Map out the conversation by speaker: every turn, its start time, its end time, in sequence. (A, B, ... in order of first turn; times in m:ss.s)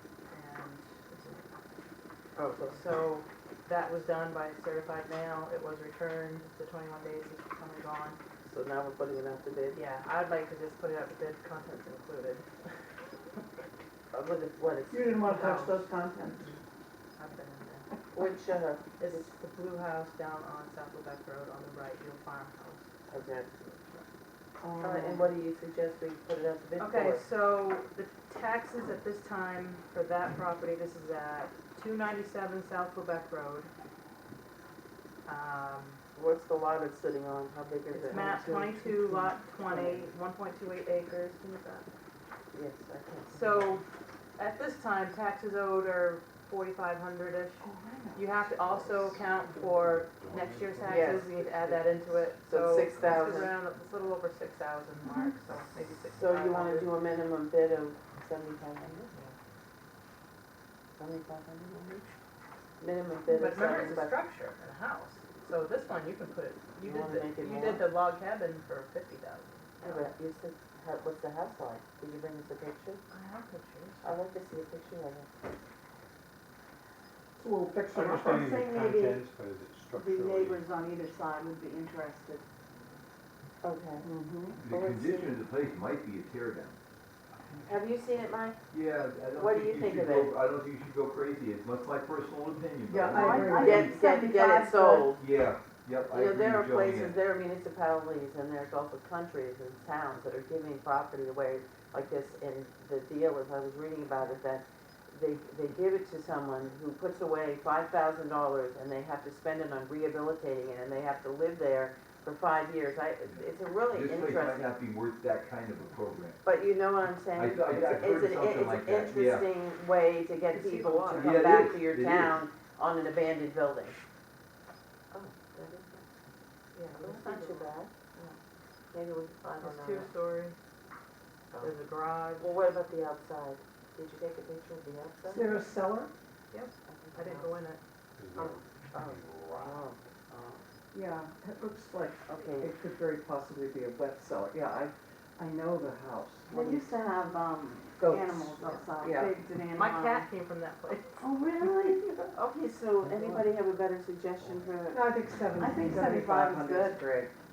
0:00.3-0:01.5 A
0:02.4-0:02.8 B
0:02.6-0:08.2 A
0:08.4-0:09.8 B
0:09.7-0:12.8 A
0:14.1-0:15.1 B
0:14.9-0:16.5 C
0:15.2-0:16.6 A
0:17.2-0:17.9 A
0:18.1-0:19.3 B
0:19.0-0:22.9 A
0:23.1-0:23.5 B
0:23.4-0:24.1 A
0:24.6-0:25.3 C
0:24.8-0:27.2 B
0:26.8-0:33.7 A
0:35.2-0:36.0 A
0:36.2-0:38.4 B
0:37.9-0:41.9 A
0:38.1-0:40.0 C
0:42.5-0:43.7 B
0:43.3-0:43.8 A
0:44.4-0:56.9 A
0:47.6-0:49.2 C
0:49.5-0:51.3 D
0:50.8-0:53.5 B
0:52.8-0:53.3 D
0:56.1-0:59.1 B
1:01.0-1:02.0 B
1:02.8-1:04.1 B
1:03.3-1:10.1 A
1:06.8-1:07.8 B
1:09.8-1:13.0 B
1:13.1-1:14.2 A
1:14.0-1:15.3 B
1:17.4-1:18.5 C
1:17.9-1:20.6 D
1:18.0-1:19.2 E
1:19.9-1:22.4 E
1:23.6-1:24.1 B
1:24.0-1:24.6 C
1:24.6-1:26.8 F
1:24.6-1:25.3 B
1:27.6-1:28.6 B
1:28.7-1:33.6 F
1:29.4-1:30.3 B
1:32.9-1:34.0 C
1:33.0-1:35.1 E
1:33.6-1:35.2 B
1:35.2-1:37.2 F
1:36.1-1:54.7 B
1:53.3-1:56.4 F
1:56.4-2:04.0 B
1:57.3-1:59.5 F
2:00.5-2:01.5 A
2:01.2-2:02.4 F
2:05.1-2:06.1 B
2:06.7-2:08.4 A
2:06.9-2:07.9 B
2:08.9-2:10.1 B
2:09.6-2:10.6 A
2:11.6-2:12.5 A
2:12.4-2:15.6 B
2:15.2-2:16.1 C
2:16.5-2:17.8 A
2:16.9-2:17.5 B
2:18.2-2:19.8 D
2:18.4-2:20.6 B
2:20.9-2:27.0 C
2:22.3-2:22.7 B
2:26.5-2:30.3 E
2:28.0-2:29.4 C
2:29.7-2:31.2 A
2:31.2-2:32.2 E
2:31.8-2:32.0 C
2:32.3-2:35.0 B
2:34.4-2:34.7 D
2:34.9-2:37.3 C
2:35.6-2:37.0 E